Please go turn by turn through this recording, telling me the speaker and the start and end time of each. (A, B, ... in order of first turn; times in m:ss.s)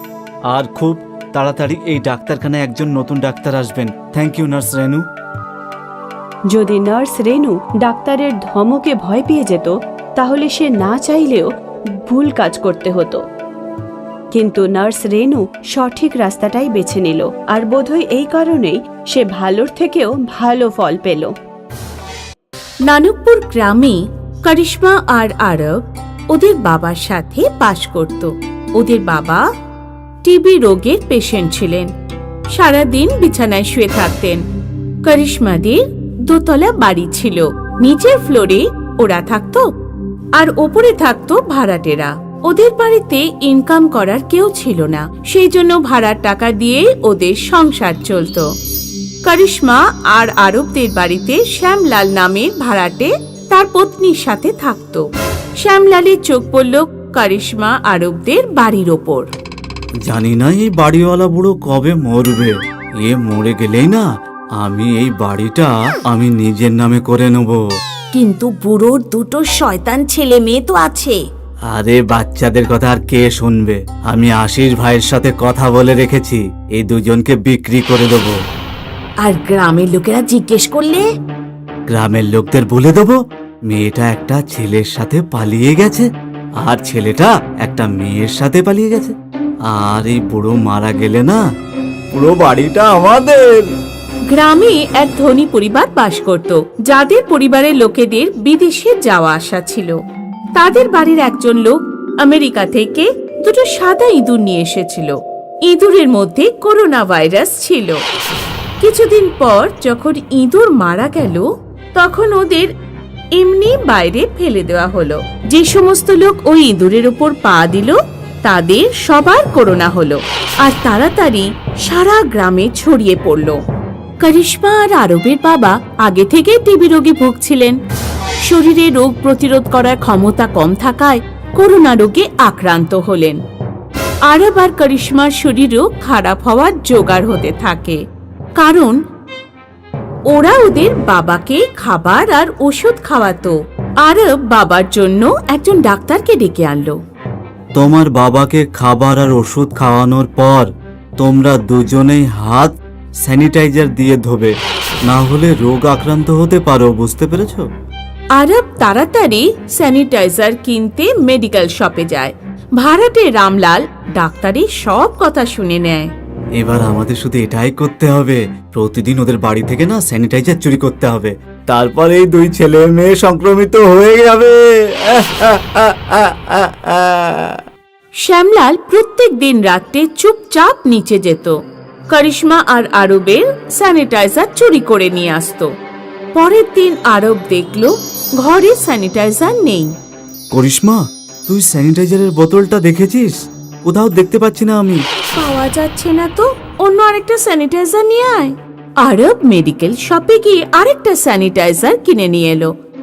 0:00.5-0:05.0 A
0:06.5-0:13.2 B
0:14.3-0:21.3 B
0:22.9-0:29.4 C
0:30.2-0:31.9 C
0:32.5-0:34.4 C
0:35.0-0:39.7 C
0:40.4-0:48.5 C
0:49.2-0:55.0 C
0:55.6-0:59.3 C
1:00.0-1:04.1 A
1:04.6-1:07.6 A
1:08.1-1:11.2 C
1:11.7-1:18.4 A
1:19.2-1:21.1 C
1:21.9-1:26.1 A
1:26.6-1:29.2 A
1:29.7-1:31.4 A
1:32.1-1:33.7 A
1:34.3-1:40.0 C
1:40.6-1:48.0 C
1:48.8-1:52.7 C
1:53.4-2:03.6 C
2:04.2-2:07.8 C
2:08.4-2:13.4 C
2:14.3-2:18.0 C
2:18.6-2:19.0 C
2:20.3-2:27.0 C
2:27.8-2:34.5 A
2:35.1-2:37.7 A
2:38.4-2:46.1 C
2:46.6-2:57.6 A
2:58.2-3:01.6 C
3:02.1-3:05.7 C
3:06.4-3:09.9 C
3:10.5-3:15.0 A
3:15.3-3:22.7 C